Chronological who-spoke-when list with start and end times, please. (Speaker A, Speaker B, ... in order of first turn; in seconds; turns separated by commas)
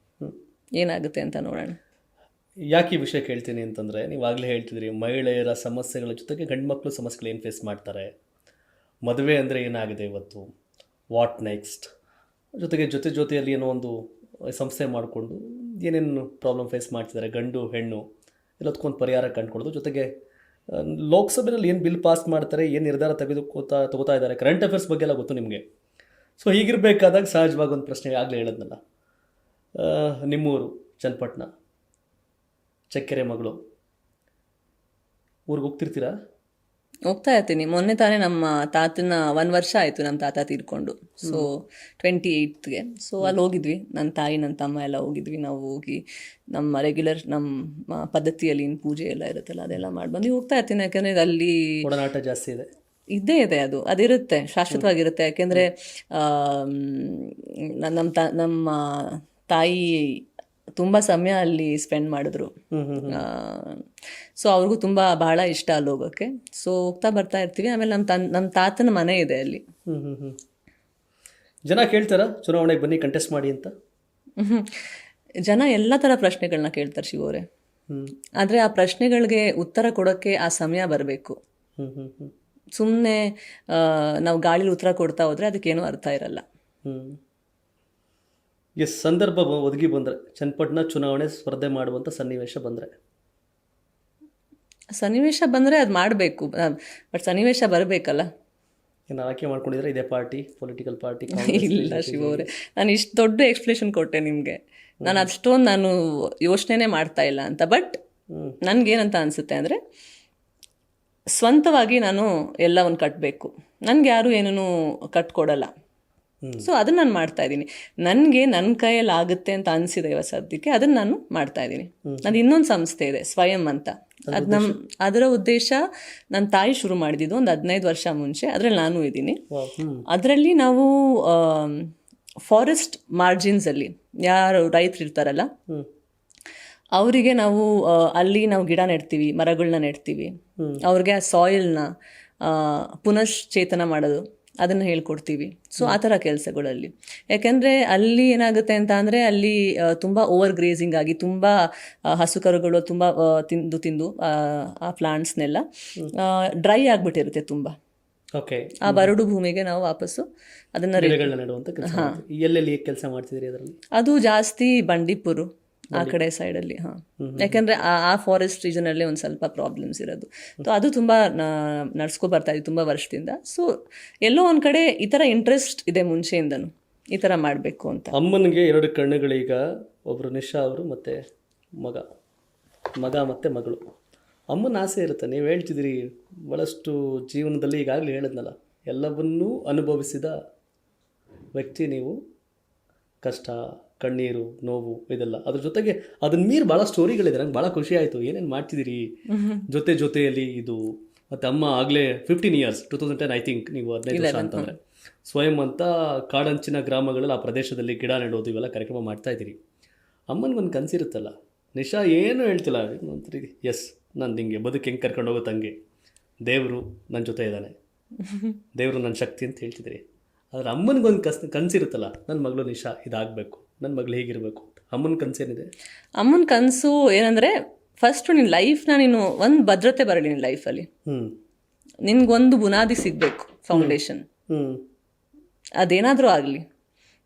Speaker A: 0.8-1.8, Speaker B: 2.7-8.1, Speaker B: 9.1-10.5, Speaker B: 11.1-11.9, Speaker B: 12.6-18.1, Speaker B: 18.6-20.1, Speaker B: 20.7-25.6, Speaker B: 26.4-28.8, Speaker B: 29.8-31.5, Speaker B: 32.9-33.6, Speaker B: 35.5-36.1, Speaker A: 37.1-46.0, Speaker A: 46.5-51.8, Speaker B: 51.8-52.7, Speaker A: 53.1-60.2, Speaker A: 60.8-62.5, Speaker B: 62.7-63.2, Speaker A: 63.1-63.9, Speaker A: 64.4-69.6, Speaker B: 69.9-70.4, Speaker B: 71.7-73.7, Speaker A: 74.4-74.9, Speaker A: 75.5-77.5, Speaker A: 78.4-81.4, Speaker B: 81.8-82.3, Speaker A: 82.8-86.4, Speaker B: 86.8-87.2, Speaker B: 88.8-92.9, Speaker A: 95.0-98.3, Speaker B: 99.1-102.5, Speaker A: 101.3-108.0, Speaker B: 105.0-105.3, Speaker B: 108.3-108.6, Speaker A: 108.6-109.8, Speaker A: 111.4-115.7, Speaker B: 116.4-116.7, Speaker A: 116.6-129.4, Speaker B: 122.0-122.3, Speaker B: 124.3-124.8, Speaker B: 129.5-130.1, Speaker A: 130.1-131.9, Speaker A: 132.5-135.5, Speaker A: 137.0-140.3, Speaker A: 140.8-141.9, Speaker A: 142.4-157.8, Speaker B: 158.3-159.1, Speaker A: 158.8-161.3, Speaker B: 161.0-163.8, Speaker A: 161.8-162.2, Speaker A: 163.9-173.7, Speaker B: 167.2-167.6, Speaker A: 174.2-178.1, Speaker B: 178.1-181.2, Speaker B: 181.8-182.1, Speaker B: 183.0-183.8, Speaker B: 184.5-190.4, Speaker B: 191.6-192.2, Speaker B: 193.2-199.1, Speaker A: 199.3-199.6, Speaker B: 199.7-209.6, Speaker A: 204.1-204.7, Speaker B: 210.3-215.8, Speaker B: 216.4-217.7, Speaker B: 218.8-225.7, Speaker A: 226.2-230.9, Speaker B: 231.1-231.3, Speaker A: 232.1-234.3, Speaker B: 234.5-234.8, Speaker A: 235.8-236.6